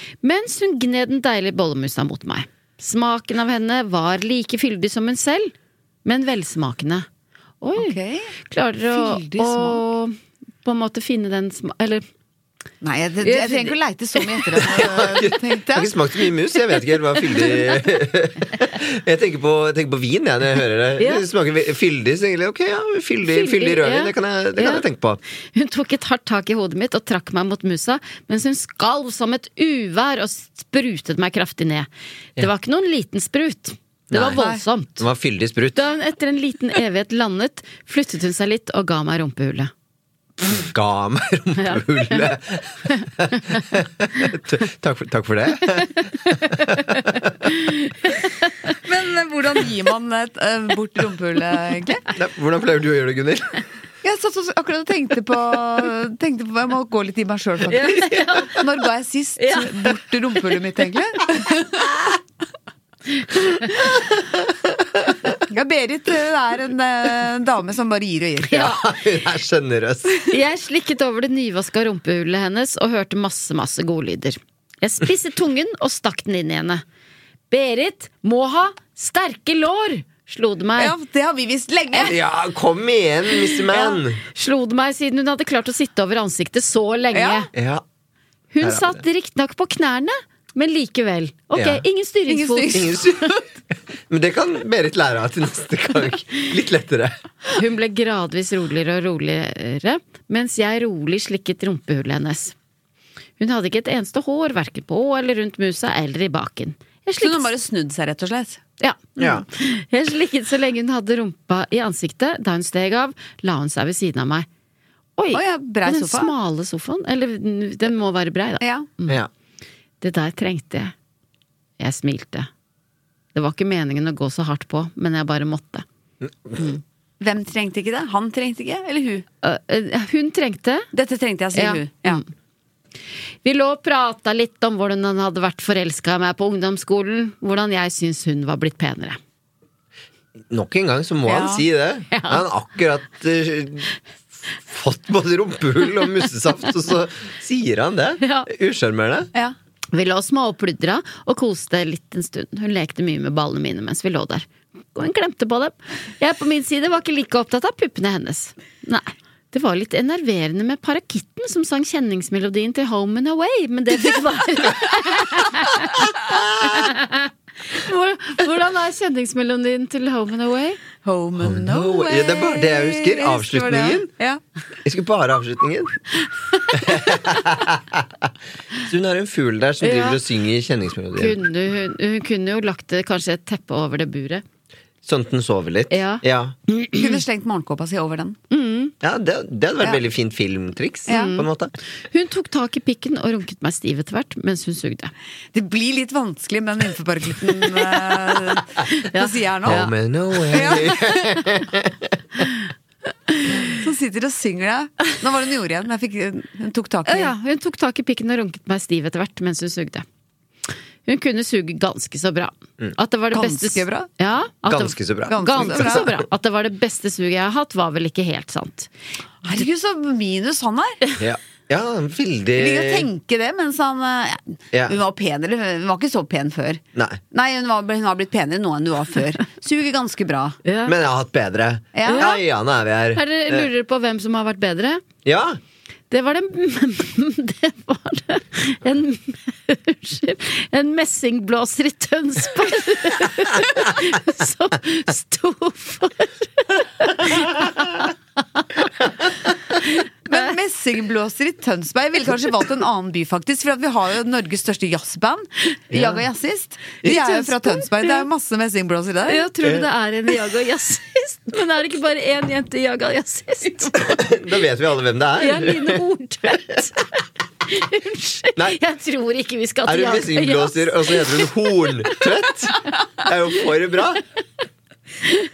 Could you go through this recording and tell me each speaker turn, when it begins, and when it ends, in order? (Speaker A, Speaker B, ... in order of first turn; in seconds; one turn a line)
Speaker A: 0.2-5.5
Speaker A: 6.0-7.1
Speaker A: 7.6-12.1
Speaker B: 7.8-8.4
Speaker B: 8.9-9.8
Speaker B: 12.8-16.0
Speaker A: 13.2-13.8
Speaker C: 14.7-25.2
Speaker A: 21.0-21.2
Speaker A: 23.2-24.8
Speaker A: 25.5-35.1
Speaker C: 34.1-34.4
Speaker B: 34.4-34.6
Speaker C: 35.0-35.9
Speaker A: 35.8-39.7
Speaker C: 40.5-47.3
Speaker A: 41.6-42.3
Speaker A: 46.4-48.7
Speaker B: 48.8-52.0
Speaker C: 52.1-53.6
Speaker B: 54.0-61.9
Speaker A: 57.7-58.6
Speaker A: 59.4-59.8
Speaker A: 63.2-63.8
Speaker B: 65.5-68.7
Speaker A: 68.5-68.8
Speaker C: 68.5-70.2
Speaker A: 70.3-76.8
Speaker A: 77.5-80.9
Speaker B: 80.8-82.2
Speaker C: 82.0-84.2
Speaker B: 83.7-84.0
Speaker A: 84.3-87.5
Speaker B: 87.1-87.5
Speaker C: 87.5-87.8
Speaker A: 88.5-93.0
Speaker C: 88.6-89.0
Speaker C: 91.5-91.8
Speaker B: 92.3-93.4
Speaker C: 92.7-93.3
Speaker C: 94.1-97.2
Speaker A: 97.5-102.5
Speaker A: 103.4-107.5
Speaker B: 107.2-108.6
Speaker A: 108.8-114.5
Speaker C: 109.2-109.5
Speaker A: 115.2-119.2
Speaker B: 115.3-116.3
Speaker B: 118.6-118.9
Speaker A: 120.0-120.9
Speaker A: 121.8-122.5
Speaker A: 123.3-125.8
Speaker C: 126.2-126.6
Speaker B: 127.2-129.3
Speaker A: 129.4-130.9
Speaker B: 130.9-132.2
Speaker A: 131.6-132.2
Speaker A: 133.4-139.2
Speaker C: 140.5-143.9
Speaker B: 141.3-141.7
Speaker A: 142.1-142.4
Speaker C: 144.6-149.3
Speaker A: 148.2-148.5
Speaker A: 149.9-170.8
Speaker B: 171.0-174.4
Speaker C: 171.4-174.1
Speaker C: 174.8-176.0
Speaker C: 176.7-178.3
Speaker C: 178.8-181.4
Speaker A: 179.8-180.2
Speaker A: 181.2-184.4
Speaker C: 185.0-186.6
Speaker A: 185.9-187.2
Speaker B: 187.0-188.4
Speaker A: 188.5-188.9
Speaker C: 189.0-191.7
Speaker B: 191.1-191.3
Speaker A: 191.1-191.5
Speaker A: 192.1-195.1
Speaker B: 195.5-199.9
Speaker A: 198.9-199.9
Speaker C: 199.7-202.2
Speaker B: 200.5-201.4
Speaker B: 203.6-207.3
Speaker A: 207.1-210.1
Speaker A: 211.1-218.9
Speaker B: 213.3-214.1
Speaker C: 214.7-216.1
Speaker B: 215.3-216.1
Speaker B: 219.4-221.0
Speaker C: 221.2-223.1
Speaker B: 222.6-230.6
Speaker C: 226.9-227.2
Speaker A: 230.7-230.9
Speaker C: 230.8-233.7
Speaker B: 231.9-232.3
Speaker A: 232.1-232.4
Speaker A: 233.1-235.0
Speaker C: 235.2-235.6
Speaker A: 236.1-248.8
Speaker A: 249.8-250.5
Speaker B: 250.3-259.5
Speaker C: 255.9-256.2
Speaker A: 257.1-258.2
Speaker A: 259.3-264.2
Speaker C: 264.0-266.0
Speaker A: 265.4-271.5
Speaker C: 269.9-274.2